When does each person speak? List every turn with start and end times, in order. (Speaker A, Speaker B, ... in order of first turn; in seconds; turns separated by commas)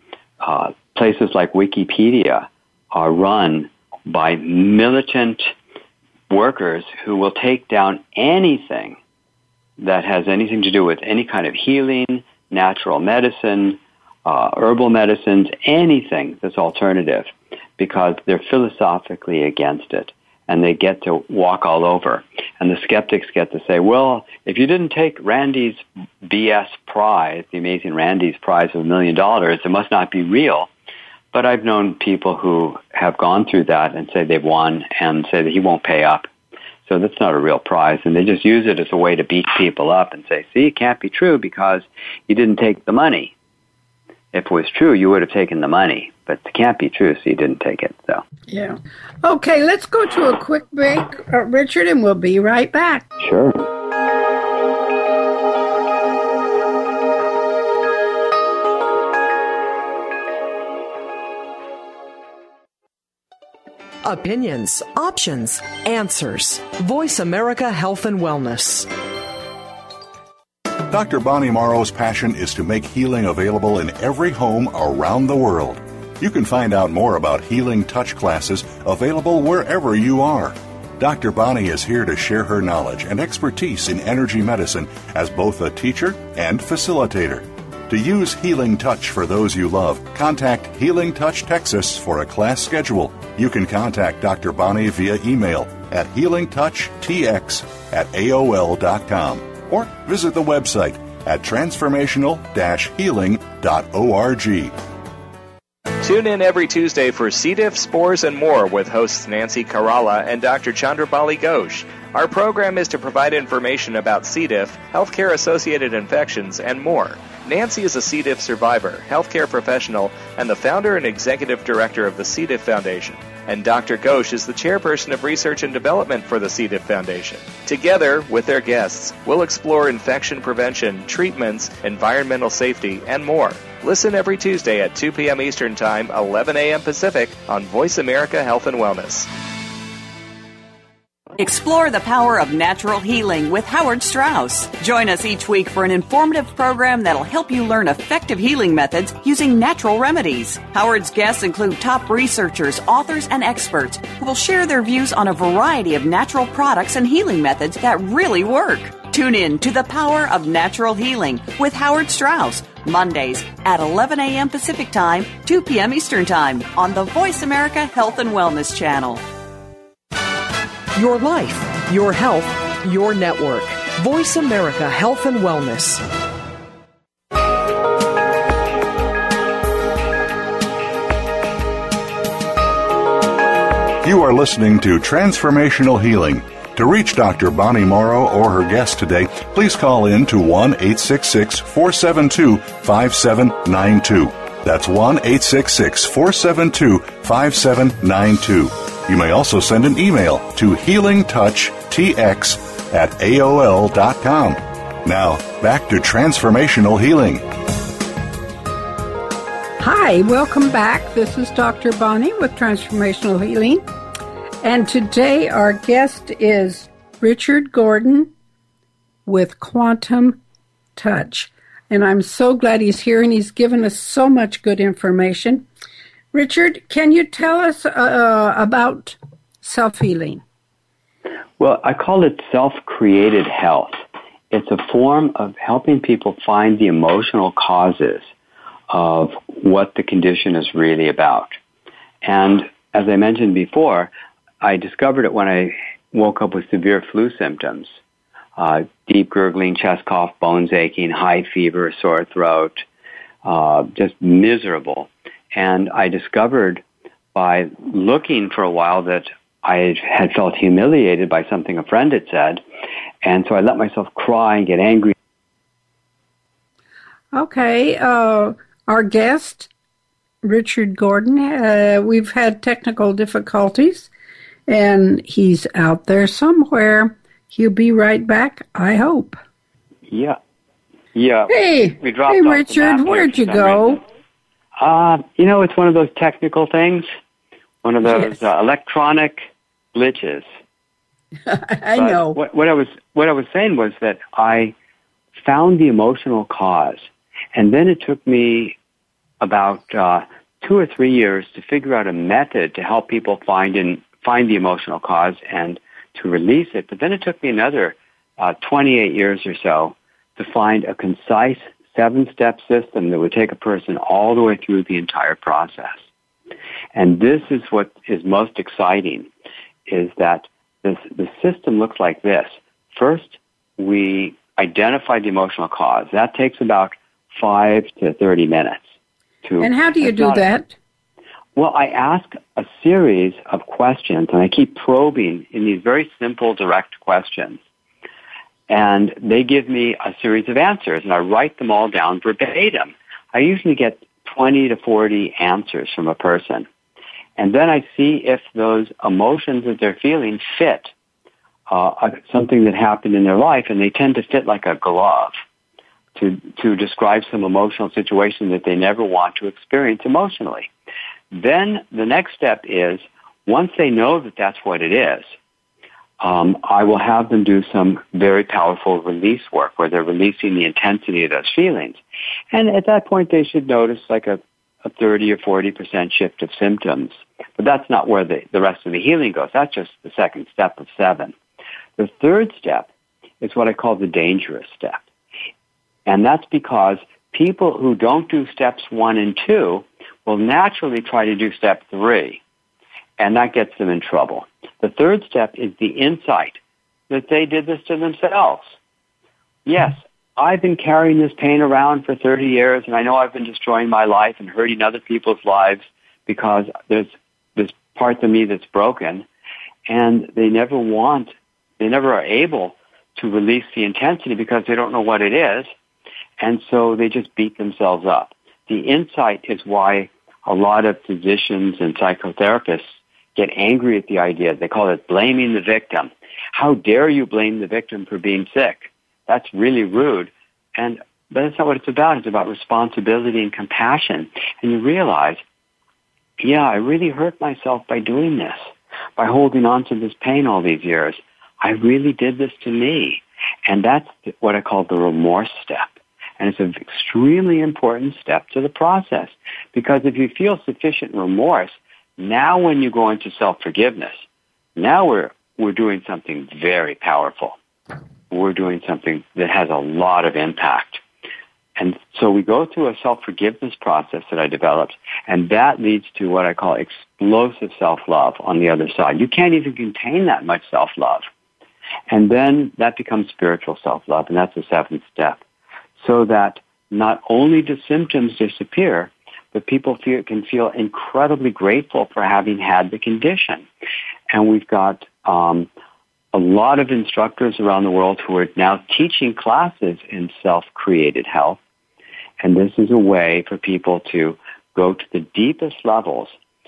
Speaker A: 0.4-5.5, Speaker A: 6.3-9.0, Speaker A: 9.8-30.7, Speaker A: 31.3-36.3, Speaker A: 36.9-43.3, Speaker A: 44.3-48.2, Speaker B: 48.5-53.1, Speaker A: 53.2-53.6, Speaker C: 64.0-68.9, Speaker D: 70.9-104.7, Speaker E: 106.0-139.3, Speaker F: 141.4-169.2, Speaker C: 170.9-176.0, Speaker D: 184.0-207.4, Speaker B: 209.8-213.8, Speaker B: 214.6-218.3, Speaker B: 219.2-220.4, Speaker B: 220.9-225.7, Speaker B: 226.3-230.4, Speaker A: 231.6-238.3, Speaker A: 238.9-241.6, Speaker A: 242.2-244.1, Speaker A: 244.6-247.9, Speaker A: 248.6-252.8, Speaker A: 253.4-256.8, Speaker A: 257.4-262.6, Speaker A: 263.2-265.1, Speaker B: 267.3-269.7, Speaker B: 270.4-274.1, Speaker B: 274.7-279.4, Speaker A: 280.1-280.4, Speaker A: 281.1-284.0, Speaker B: 281.5-284.0, Speaker A: 284.8-287.1, Speaker A: 287.8-290.5, Speaker B: 291.5-292.4, Speaker A: 292.0-294.7, Speaker A: 295.4-298.8, Speaker A: 299.4-316.0, Speaker A: 316.9-319.3, Speaker A: 319.9-328.8, Speaker A: 329.4-330.4, Speaker B: 329.6-330.7, Speaker A: 331.6-337.6, Speaker A: 338.7-346.7, Speaker A: 347.4-350.9, Speaker A: 351.7-355.3, Speaker A: 356.1-360.7, Speaker A: 361.3-365.3, Speaker A: 366.2-372.0, Speaker A: 372.5-381.3, Speaker A: 382.0-382.9, Speaker A: 383.4-385.0, Speaker A: 386.1-392.4, Speaker A: 393.2-396.6, Speaker A: 397.1-398.7, Speaker A: 399.6-409.2, Speaker A: 409.9-415.7, Speaker A: 416.4-422.8, Speaker A: 423.4-435.4, Speaker A: 436.4-438.6, Speaker A: 439.2-454.2, Speaker A: 454.8-457.6, Speaker A: 458.3-461.0, Speaker A: 461.8-471.2, Speaker A: 472.1-475.4, Speaker A: 476.0-483.6, Speaker A: 484.3-485.7, Speaker A: 486.3-491.6, Speaker A: 492.4-496.4